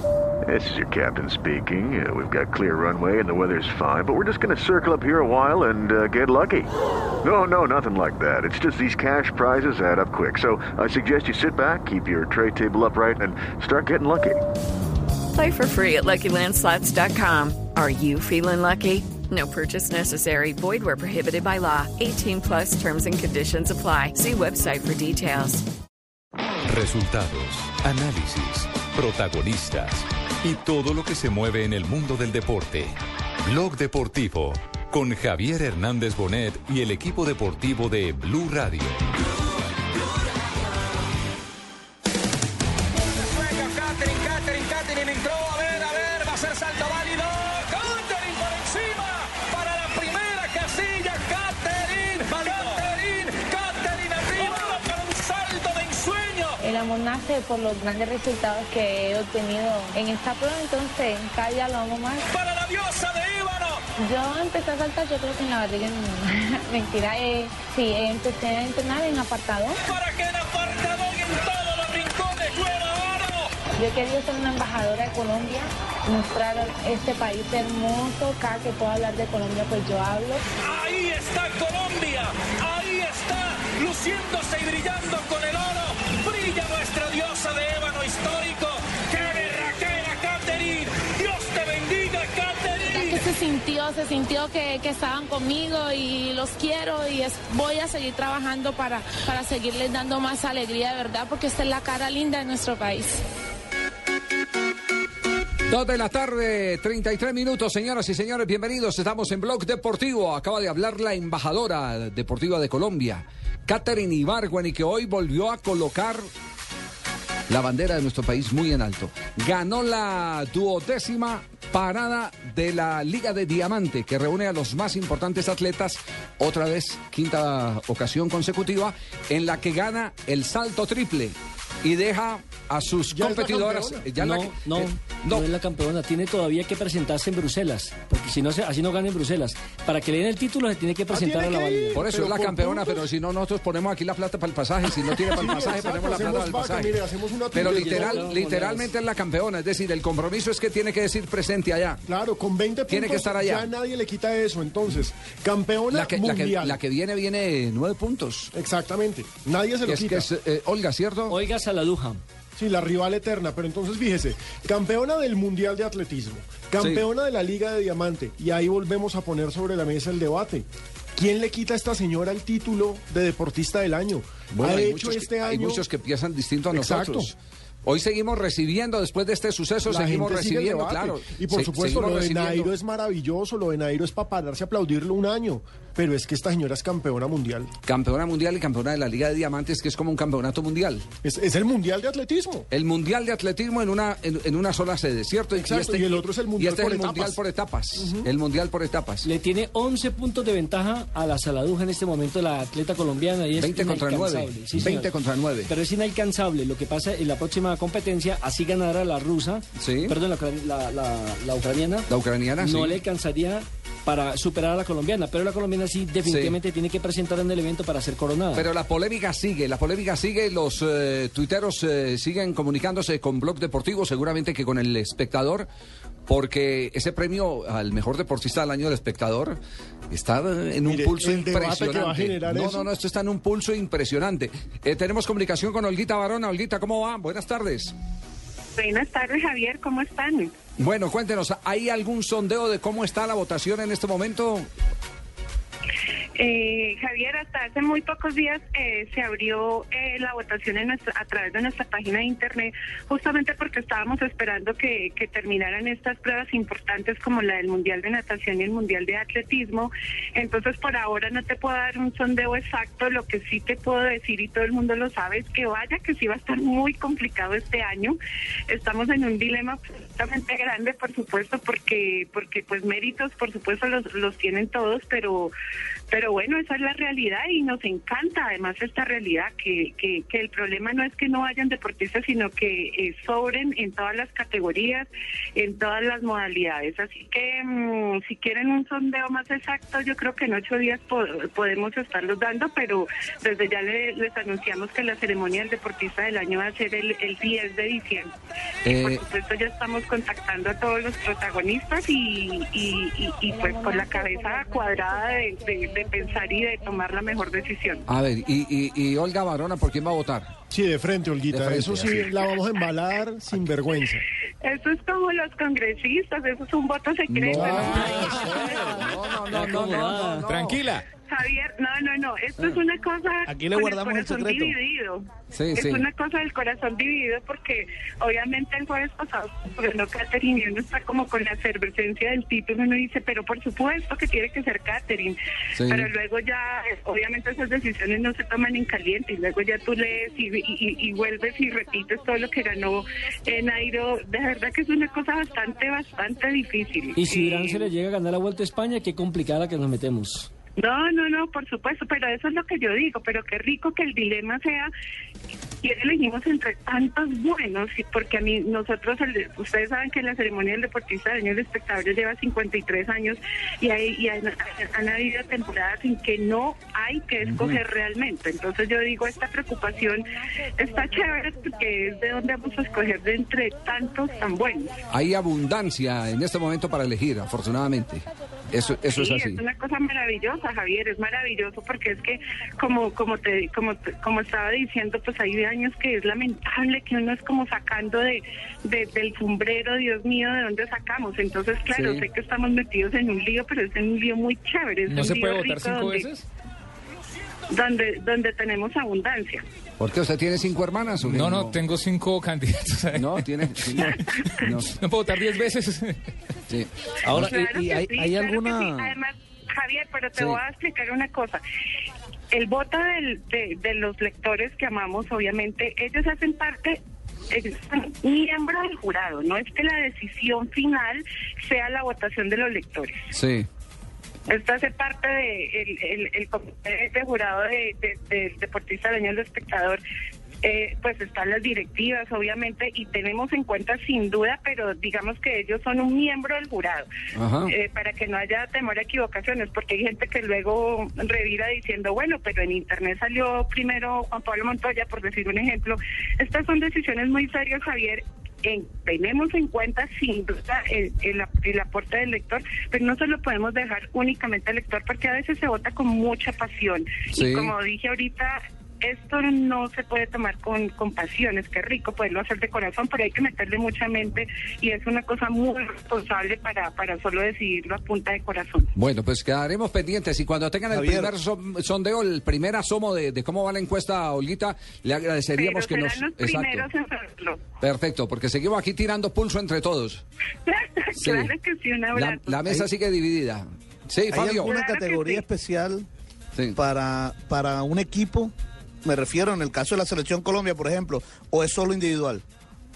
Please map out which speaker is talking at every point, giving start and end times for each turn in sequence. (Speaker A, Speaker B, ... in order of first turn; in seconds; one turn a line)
Speaker A: 0.5-6.7
Speaker A: 7.2-14.4
Speaker B: 15.3-25.6
Speaker C: 26.7-39.1
Speaker D: 45.1-56.6
Speaker E: 56.6-62.3
Speaker D: 62.3-63.8
Speaker E: 64.0-69.8
Speaker D: 69.8-73.5
Speaker E: 73.8-80.4
Speaker D: 80.6-93.2
Speaker F: 92.9-103.2
Speaker G: 105.7-116.3
Speaker G: 117.5-135.5
Speaker H: 133.1-134.1
Speaker I: 134.2-142.0
Speaker H: 141.1-143.1
Speaker G: 141.9-147.0
Speaker H: 145.3-148.3
Speaker G: 147.5-152.0
Speaker I: 147.6-148.9
Speaker H: 152.1-156.8
Speaker G: 152.9-153.7
Speaker G: 155.9-158.5
Speaker H: 158.5-160.3
Speaker G: 159.8-161.4
Speaker I: 161.3-162.2
Speaker H: 162.6-175.8
Speaker G: 166.8-167.0
Speaker G: 174.5-182.7
Speaker H: 176.7-177.3
Speaker H: 179.8-187.7
Speaker G: 187.8-191.0
Speaker H: 191.2-192.7
Speaker G: 192.7-199.2
Speaker H: 195.5-197.4
Speaker H: 197.9-198.3
Speaker I: 199.2-205.1
Speaker G: 203.6-205.7
Speaker I: 205.7-212.1
Speaker G: 209.8-210.2
Speaker G: 212.1-213.0
Speaker I: 212.6-218.7
Speaker G: 216.2-216.6
Speaker G: 218.5-225.7
Speaker G: 226.3-229.6
Speaker G: 230.1-237.9
Speaker H: 230.8-232.9
Speaker J: 238.8-240.5
Speaker G: 240.8-244.7
Speaker J: 246.3-268.2
Speaker J: 268.7-275.5
Speaker J: 276.1-298.3
Speaker G: 298.8-299.2
Speaker J: 298.9-308.0
Speaker E: 303.5-307.2
Speaker G: 308.1-310.5
Speaker H: 310.7-314.2
Speaker G: 311.5-312.3
Speaker J: 314.6-319.1
Speaker G: 317.5-320.8
Speaker I: 317.5-318.4
Speaker I: 319.5-320.5
Speaker K: 320.4-321.1
Speaker J: 321.2-347.9
Speaker L: 323.7-324.7
Speaker G: 325.5-326.0
Speaker G: 335.8-336.1
Speaker I: 347.1-350.5
Speaker J: 350.8-354.9
Speaker J: 355.8-375.0
Speaker G: 367.4-367.8
Speaker G: 375.1-379.6
Speaker J: 379.1-396.3
Speaker G: 391.9-392.2
Speaker K: 395.1-396.4
Speaker J: 397.7-399.6
Speaker G: 400.0-401.8
Speaker K: 401.2-403.9
Speaker G: 403.1-404.9
Speaker K: 404.9-406.1
Speaker G: 406.7-407.4
Speaker J: 407.3-411.6
Speaker L: 408.1-409.0
Speaker J: 412.5-417.0
Speaker J: 417.5-423.3
Speaker G: 423.3-423.7
Speaker J: 424.5-430.0
Speaker J: 430.6-437.1
Speaker G: 437.3-437.7
Speaker J: 437.7-468.9
Speaker G: 457.3-457.7
Speaker G: 468.9-476.9
Speaker L: 470.9-471.3
Speaker J: 475.5-477.6
Speaker G: 477.8-480.2
Speaker J: 480.7-482.7
Speaker G: 481.1-481.5
Speaker G: 482.1-484.8
Speaker L: 484.3-486.1
Speaker J: 484.6-485.4
Speaker L: 486.8-488.5
Speaker L: 489.0-492.4